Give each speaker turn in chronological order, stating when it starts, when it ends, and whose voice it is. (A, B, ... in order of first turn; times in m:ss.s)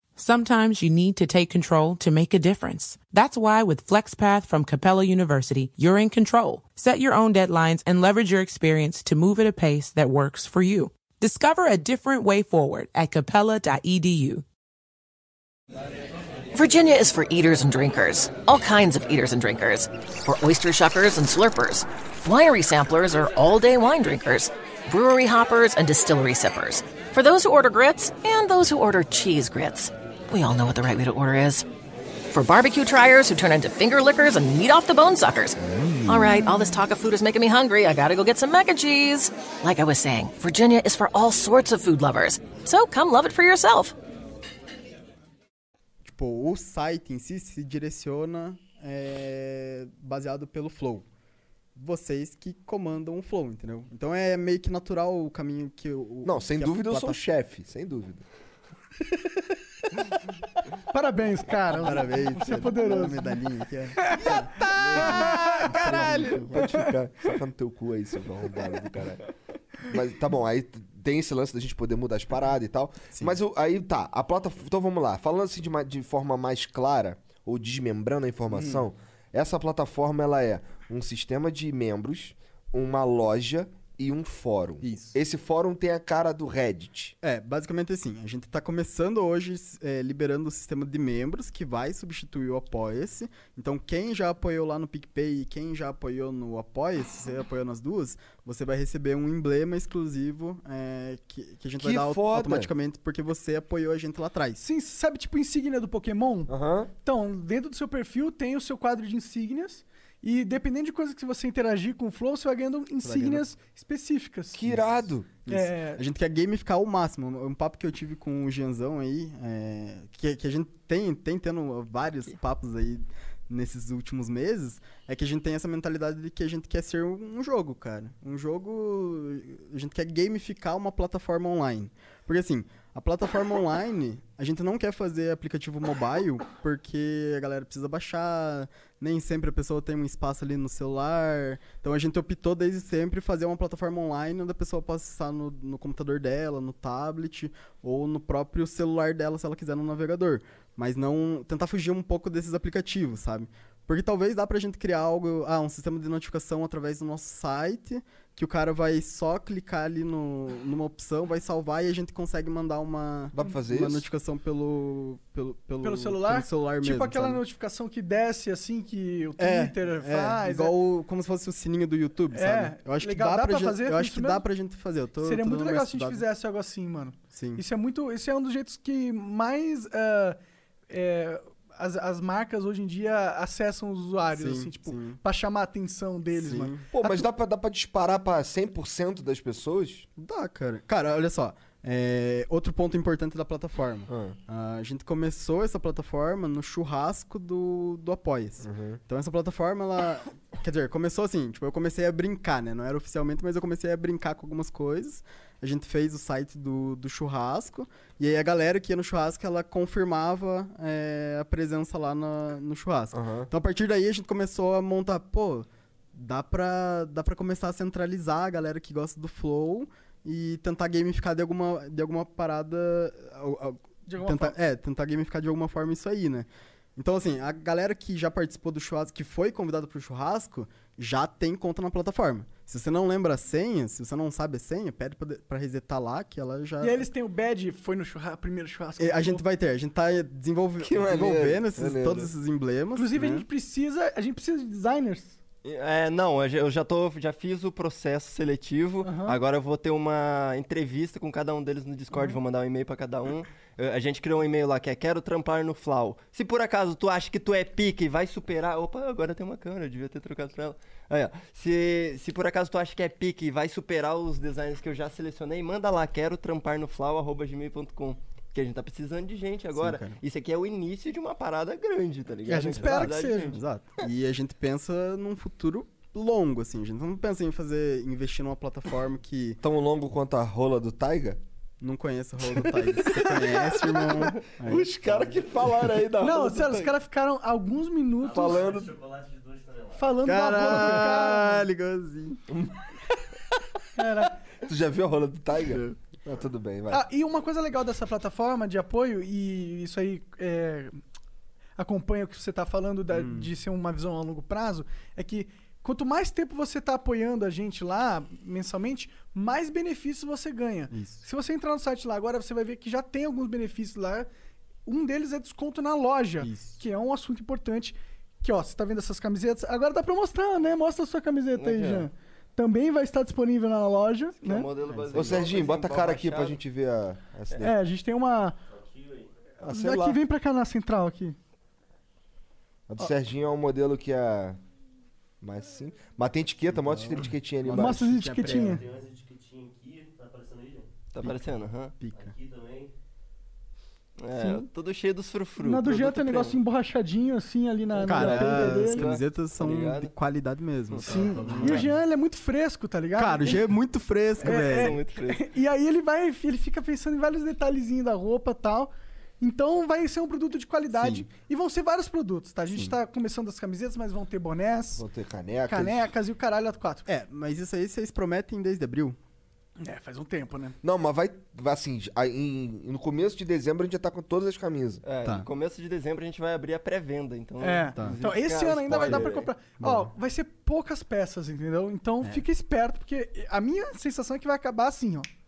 0:00.2-0:14.4 A
0:16.5-0:31.6 B
0:32.3-0:43.9 B
0:35.6-0:36.4 C
0:46.0-0:51.0 D
0:51.7-0:57.2 D
0:56.2-0:58.2 C
1:00.9-1:03.4 E
1:01.7-1:06.6 D
1:04.0-1:06.8 E
1:04.6-1:09.2 C
1:09.8-1:27.1 C
1:13.1-1:13.4 D
1:18.5-1:18.8 D
1:24.8-1:25.2 D
1:27.2-1:44.6 D
1:41.8-1:42.7 C
1:44.6-1:54.6 E
1:46.5-1:46.9 C
1:53.0-1:53.4 D
1:54.5-1:55.3 C
1:55.4-1:56.0 E
1:55.4-2:47.4 D
2:43.3-2:44.1 C
2:45.8-2:50.7 E
2:49.4-2:56.2 D
2:52.3-2:54.4 E
2:55.2-3:00.4 E
2:57.3-2:57.6 D
3:00.9-3:06.9 E
3:04.3-3:05.2 D
3:06.3-3:07.2 D
3:06.9-3:10.1 C
3:10.2-3:57.1 D
3:14.1-3:14.4 C
3:18.6-3:19.0 C
3:33.1-3:33.5 C
3:44.0-3:44.6 E
3:56.8-3:59.4 E
3:59.0-4:03.4 D
4:00.8-4:02.3 C
4:02.9-4:05.4 E
4:05.6-4:33.6 F
4:09.0-4:09.4 E
4:29.8-4:30.2 D
4:32.4-4:33.6 E
4:32.7-4:39.6 D
4:39.6-4:41.4 C
4:41.8-4:44.9 D
4:44.6-4:46.8 C
4:45.0-4:45.4 G
4:46.1-4:48.8 E
4:48.2-4:50.2 G
4:48.3-4:48.9 C
4:50.0-4:51.6 E
4:50.2-4:52.4 D
4:54.0-4:54.4 E
4:54.6-4:57.0 C
4:55.7-4:56.0 D
4:56.9-5:01.0 E
5:01.8-5:14.3 E
5:03.1-5:03.5 D
5:10.9-5:11.2 D
5:14.8-5:24.7 E
5:16.4-5:16.8 D
5:21.5-5:22.1 F
5:24.4-5:26.6 F
5:24.8-5:25.4 D
5:25.1-5:27.8 C
5:27.6-5:28.6 E
5:28.7-5:29.3 G
5:29.6-5:31.4 E
5:29.6-5:30.2 C
5:32.9-5:34.6 C
5:35.4-5:38.0 C
5:36.7-5:38.8 D
5:37.7-5:38.8 E
5:38.4-5:40.9 G
5:41.1-5:42.0 F
5:42.0-5:42.3 D
5:42.1-5:42.9 G
5:44.2-5:46.6 F
5:44.4-5:44.6 E
5:45.6-5:49.1 E
5:47.9-5:50.1 F
5:48.0-5:51.9 D
5:50.9-5:51.9 F
5:51.0-5:53.6 E
5:51.4-5:51.6 G
5:53.2-5:55.0 D
5:54.4-6:05.0 E
5:54.4-5:55.5 F
6:00.9-6:01.3 D
6:02.7-6:02.9 D
6:05.0-6:06.1 C
6:05.7-6:07.1 E
6:07.0-6:09.2 D
6:09.8-6:10.8 E
6:10.8-6:15.0 C
6:15.0-6:19.5 F
6:15.2-6:15.5 D
6:17.6-6:25.3 E
6:18.9-6:19.2 D
6:19.8-6:20.1 D